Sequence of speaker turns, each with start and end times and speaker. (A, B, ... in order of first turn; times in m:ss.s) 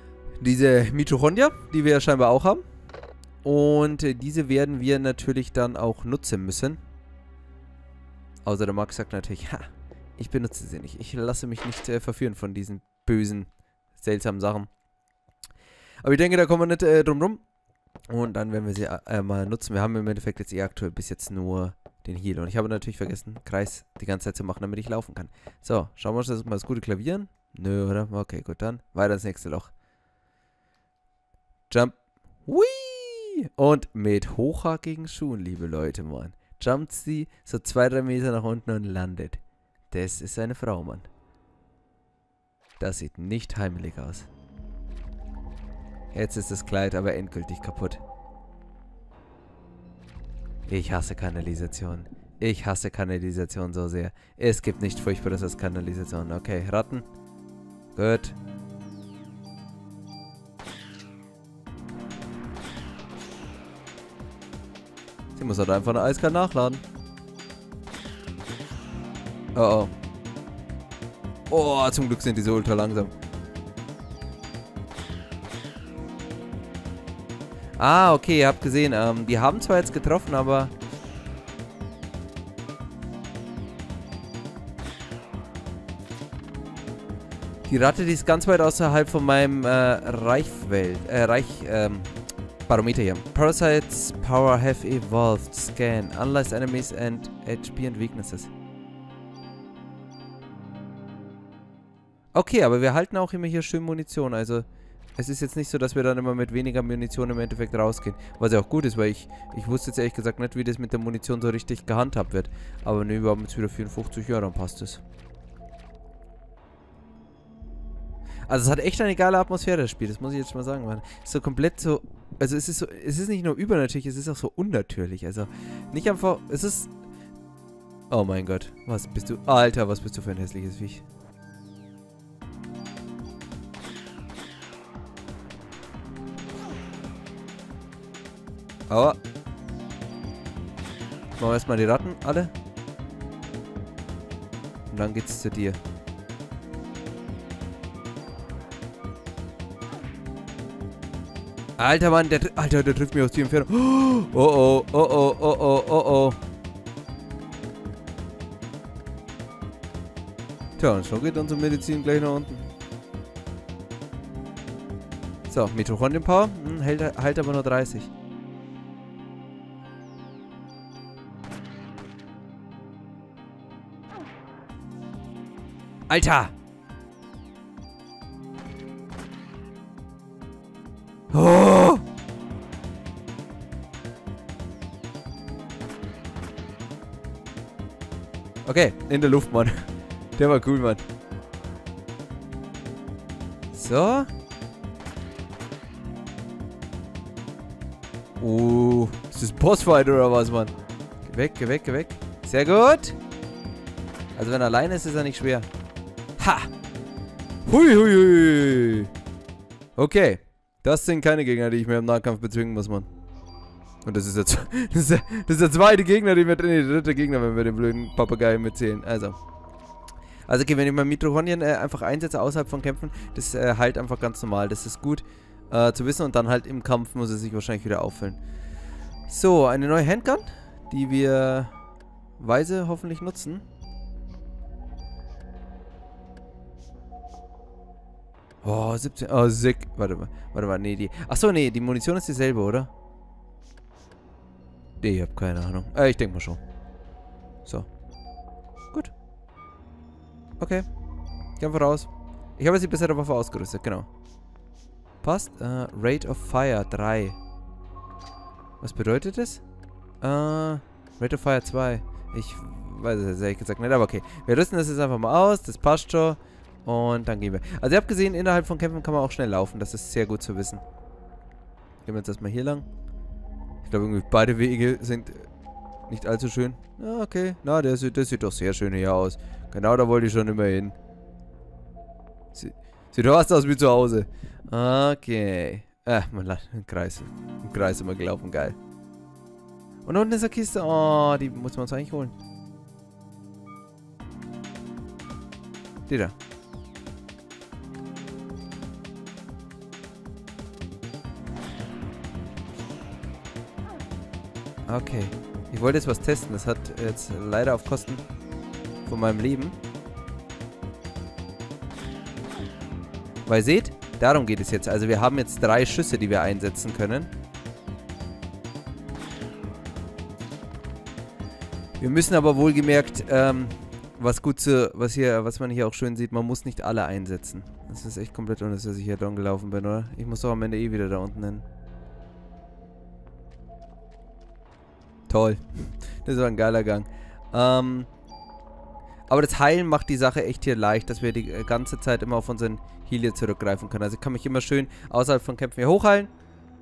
0:00.4-0:02.6 A
0:03.4-0:06.8 A
0:08.4-0:14.7 A
0:16.0-0:17.4 A
0:18.1-0:29.7 A
0:31.7-0:41.1 A
0:42.8-0:44.3 A
0:46.1-0:48.0 A
0:50.7-0:57.1 A
0:57.9-0:58.4 A
1:05.3-1:06.8 A
1:09.5-1:09.9 A
1:11.5-1:13.1 A
1:17.8-1:20.7 A
1:27.6-1:38.5 A
1:42.3-1:55.0 A
1:58.5-2:06.9 A
2:08.1-2:11.0 A
2:18.9-2:19.2 A
2:21.4-2:22.5 A
2:24.9-2:25.8 A
2:31.8-2:36.4 A
2:40.8-2:42.7 A
2:45.5-2:48.1 A
2:56.1-2:56.5 A
3:01.3-3:02.0 A
3:08.6-3:09.8 A
3:10.4-3:11.0 A
3:13.7-3:14.3 A
3:18.4-3:20.7 A
3:21.2-3:23.2 A
3:24.4-3:25.7 A
3:26.4-3:26.7 A
3:27.6-3:29.1 A
3:30.0-3:33.1 A
3:34.0-3:39.4 A
3:40.5-3:48.4 A
3:49.3-3:51.7 A
3:52.4-3:53.6 A
3:58.6-4:02.9 A
4:05.0-4:06.6 A
4:07.6-4:07.9 A
4:10.6-4:10.9 A
4:11.6-4:14.1 A
4:15.2-4:17.4 A
4:18.8-4:19.6 A
4:20.2-4:30.8 A
4:32.0-4:32.9 A
4:33.8-4:35.5 A
4:36.1-4:41.0 A
4:42.5-4:48.8 A
4:50.0-4:52.3 A
4:56.1-4:56.3 A
5:04.9-5:08.2 A
5:09.0-5:09.8 A
5:13.4-5:17.3 A
5:22.0-5:31.6 A
5:35.3-5:38.1 A
5:39.3-5:46.3 A